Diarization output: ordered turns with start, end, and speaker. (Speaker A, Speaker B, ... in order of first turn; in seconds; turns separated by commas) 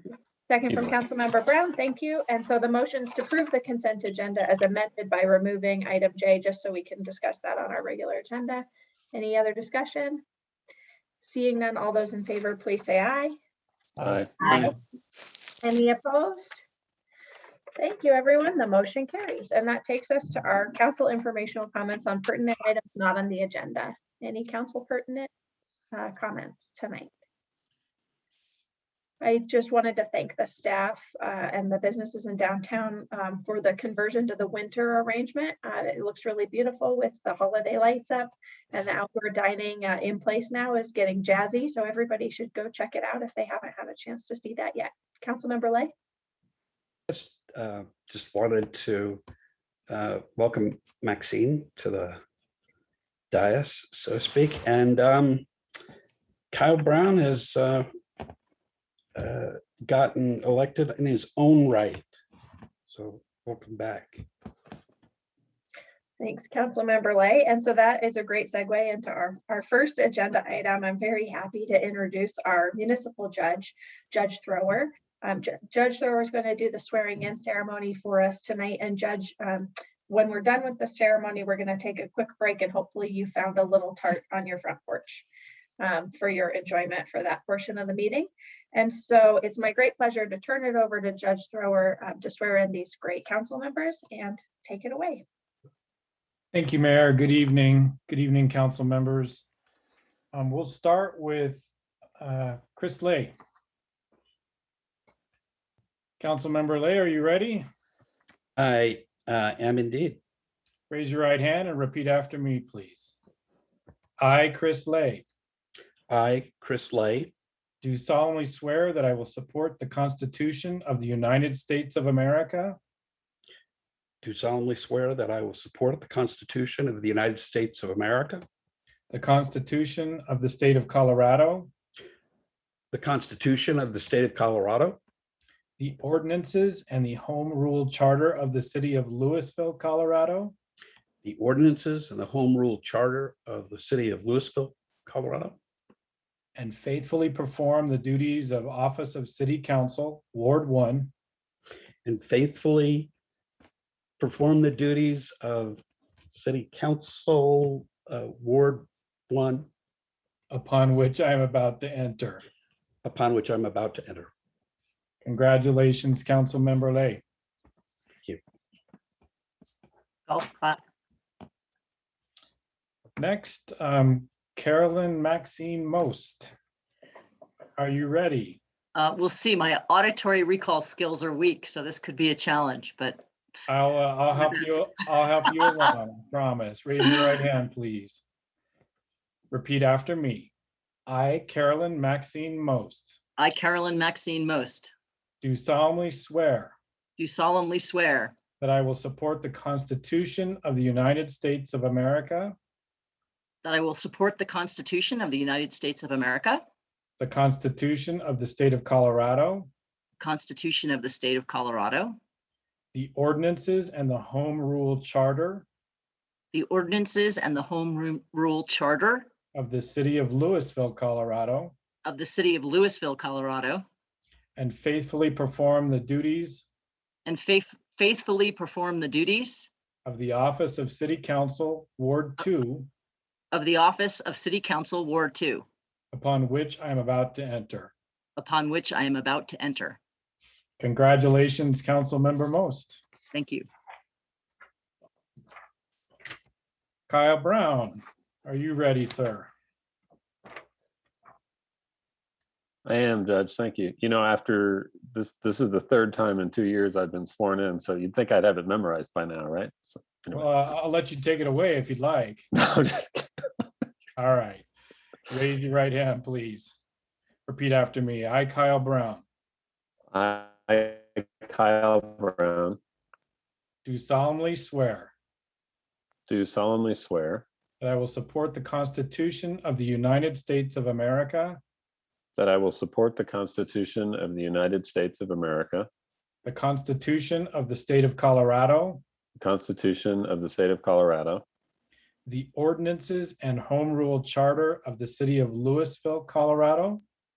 Speaker A: 0.5-10.2, Speaker A: 11.2-13.3, Speaker B: 14.0-14.7, Speaker A: 14.4-14.7, Speaker A: 15.6-16.6, Speaker A: 17.8-25.3, Speaker A: 25.9-27.1, Speaker A: 29.2-45.9, Speaker C: 47.1-49.2, Speaker C: 49.9-52.2, Speaker C: 53.3-55.5, Speaker C: 56.5-57.9, Speaker C: 59.2-62.0, Speaker C: 62.9-64.3, Speaker A: 66.2-85.3, Speaker A: 85.8-95.2, Speaker D: 96.5-99.5, Speaker D: 100.3-103.3, Speaker D: 106.2-107.7, Speaker C: 108.6-110.2, Speaker D: 110.9-113.2, Speaker D: 114.2-115.3, Speaker C: 116.1-117.3, Speaker D: 117.8-122.8, Speaker C: 124.2-128.4, Speaker D: 129.1-131.7, Speaker C: 132.9-135.0, Speaker D: 135.8-140.5, Speaker C: 141.2-145.6, Speaker D: 146.5-151.1, Speaker C: 152.0-153.1, Speaker C: 154.2-159.7, Speaker D: 160.5-162.4, Speaker C: 163.0-164.3, Speaker D: 165.2-167.2, Speaker E: 170.3-170.8, Speaker D: 173.2-176.5, Speaker D: 177.8-178.6, Speaker E: 178.9-183.2, Speaker D: 183.7-188.2, Speaker D: 189.5-190.5, Speaker D: 191.1-193.2, Speaker E: 193.4-194.9, Speaker D: 195.4-196.8, Speaker E: 197.2-198.3, Speaker D: 198.6-202.6, Speaker E: 203.6-206.6, Speaker D: 207.2-209.7, Speaker E: 210.2-212.2, Speaker D: 212.9-215.7, Speaker E: 216.5-219.3, Speaker D: 219.5-221.8, Speaker E: 222.0-223.8, Speaker D: 224.6-226.7, Speaker E: 227.2-229.7, Speaker D: 230.0-232.9, Speaker E: 233.5-235.7, Speaker D: 236.1-237.9, Speaker E: 238.4-240.0, Speaker D: 240.8-243.0, Speaker E: 243.3-243.7, Speaker D: 247.1-249.5, Speaker B: 252.8-260.5, Speaker D: 260.3-262.5, Speaker B: 262.5-263.3, Speaker D: 264.1-264.7, Speaker D: 265.3-266.8, Speaker D: 267.4-269.2, Speaker B: 270.1-272.8, Speaker D: 273.8-275.1, Speaker B: 276.3-277.4, Speaker D: 277.8-281.6, Speaker B: 282.3-285.9, Speaker D: 286.4-289.0, Speaker B: 289.4-291.4, Speaker D: 292.2-297.0